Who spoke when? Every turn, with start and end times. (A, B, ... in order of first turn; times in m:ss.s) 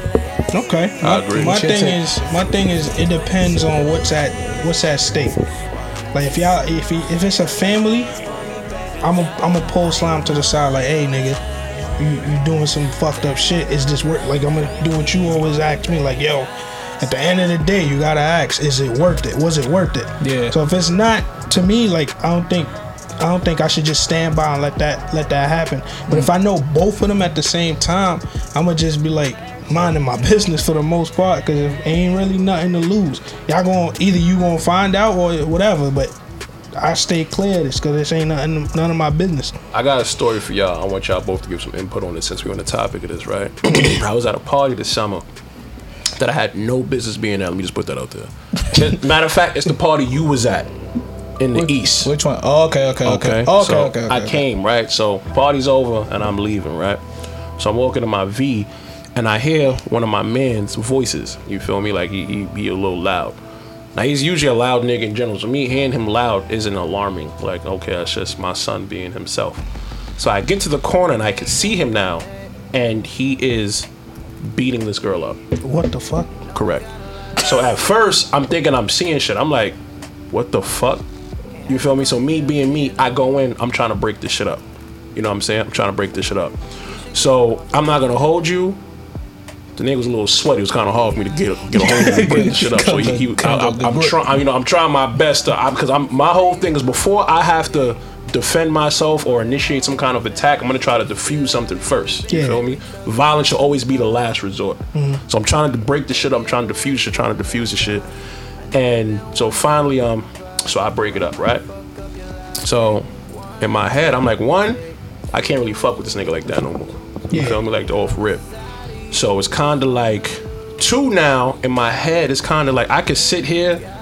0:00.5-0:05.4 A
0:01.0-0:01.7 B
0:01.4-0:02.0 C
0:06.1-0:08.1 A
0:09.0-0:11.4 A
0:12.0-0:36.2 A
0:20.2-0:20.6 C
0:36.8-0:39.6 A
0:39.7-0:45.2 B
0:46.2-0:50.7 B
0:51.4-0:52.1 B
0:51.6-0:54.4 C
0:53.0-0:57.0 B
0:57.6-1:03.4 B
1:04.0-1:09.6 B
1:10.2-1:13.9 B
1:14.4-1:15.4 B
1:15.6-1:16.4 A
1:16.5-1:19.8 B
1:20.3-1:21.0 B
1:21.7-1:24.6 B
1:25.2-1:26.6 B
1:27.1-1:28.8 B
1:29.8-1:48.0 B
1:31.8-1:34.2 C
1:42.3-1:42.6 A
1:45.0-1:45.2 A
1:48.7-1:51.6 B
1:52.6-1:53.1 B
1:53.6-1:54.8 B
1:55.3-1:58.4 B
1:57.3-1:57.6 A
1:59.1-2:03.8 B